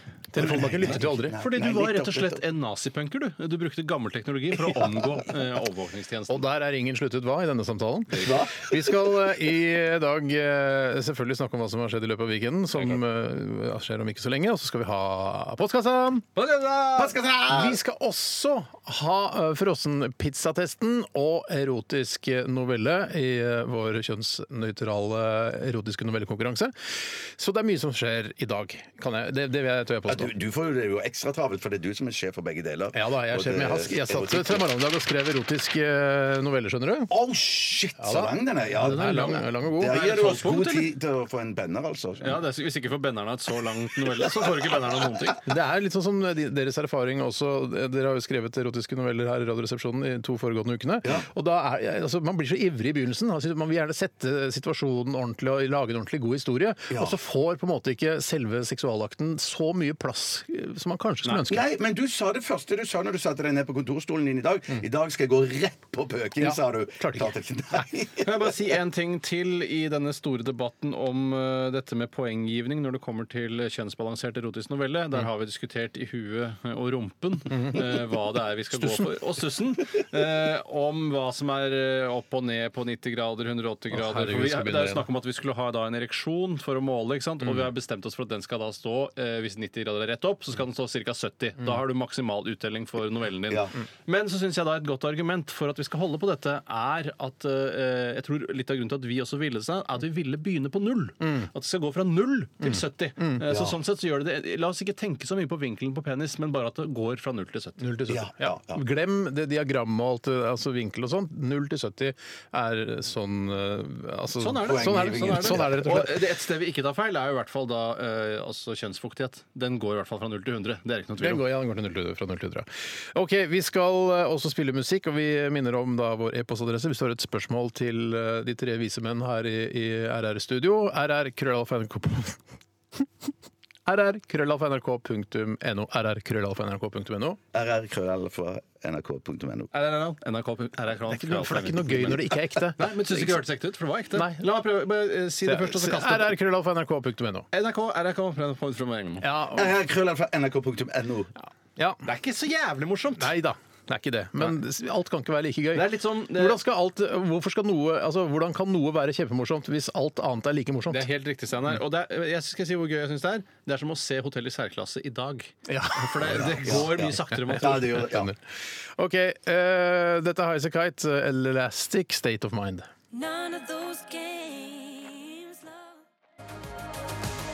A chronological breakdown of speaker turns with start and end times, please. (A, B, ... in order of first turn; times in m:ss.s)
0:00.3-0:01.4 A
0:00.4-0:02.4 B
0:00.8-0:06.4 C
0:06.3-0:16.2 A
0:08.1-0:08.8 B
0:12.7-0:13.0 C
0:16.4-0:17.2 C
0:16.9-0:17.8 B
0:17.5-0:26.7 A
0:27.4-0:30.3 A
0:30.1-0:34.7 B
0:32.9-0:37.1 A
0:37.1-0:42.4 B
0:38.0-0:40.0 A
0:38.8-0:40.9 C
0:42.2-0:45.4 C
0:45.4-1:01.6 A
0:56.9-0:57.2 B
1:01.4-1:08.5 B
1:06.4-1:07.3 A
1:08.2-1:47.8 C
1:17.5-1:17.8 A
1:18.8-1:19.1 A
1:23.9-1:25.0 A
1:33.5-1:33.7 B
1:41.2-1:41.5 A
1:42.7-1:43.4 A
1:43.4-1:43.8 B
1:47.8-1:56.1 A
1:48.1-1:48.8 B
1:54.4-2:01.4 C
1:54.6-1:56.1 B
2:01.2-2:12.4 A
2:13.8-2:17.4 A
2:17.5-2:19.7 B
2:19.7-2:26.4 C
2:21.1-2:22.9 A
2:24.1-2:24.4 A
2:25.4-2:27.4 A
2:27.5-2:29.2 C
2:29.2-2:29.7 A
2:29.5-2:31.3 B
2:32.0-2:33.3 C
2:33.2-2:41.0 A
2:35.7-2:36.6 C
2:40.9-2:48.1 C
2:45.7-2:48.3 A
2:46.2-2:48.3 B
2:49.0-2:52.8 A
2:53.1-2:55.7 D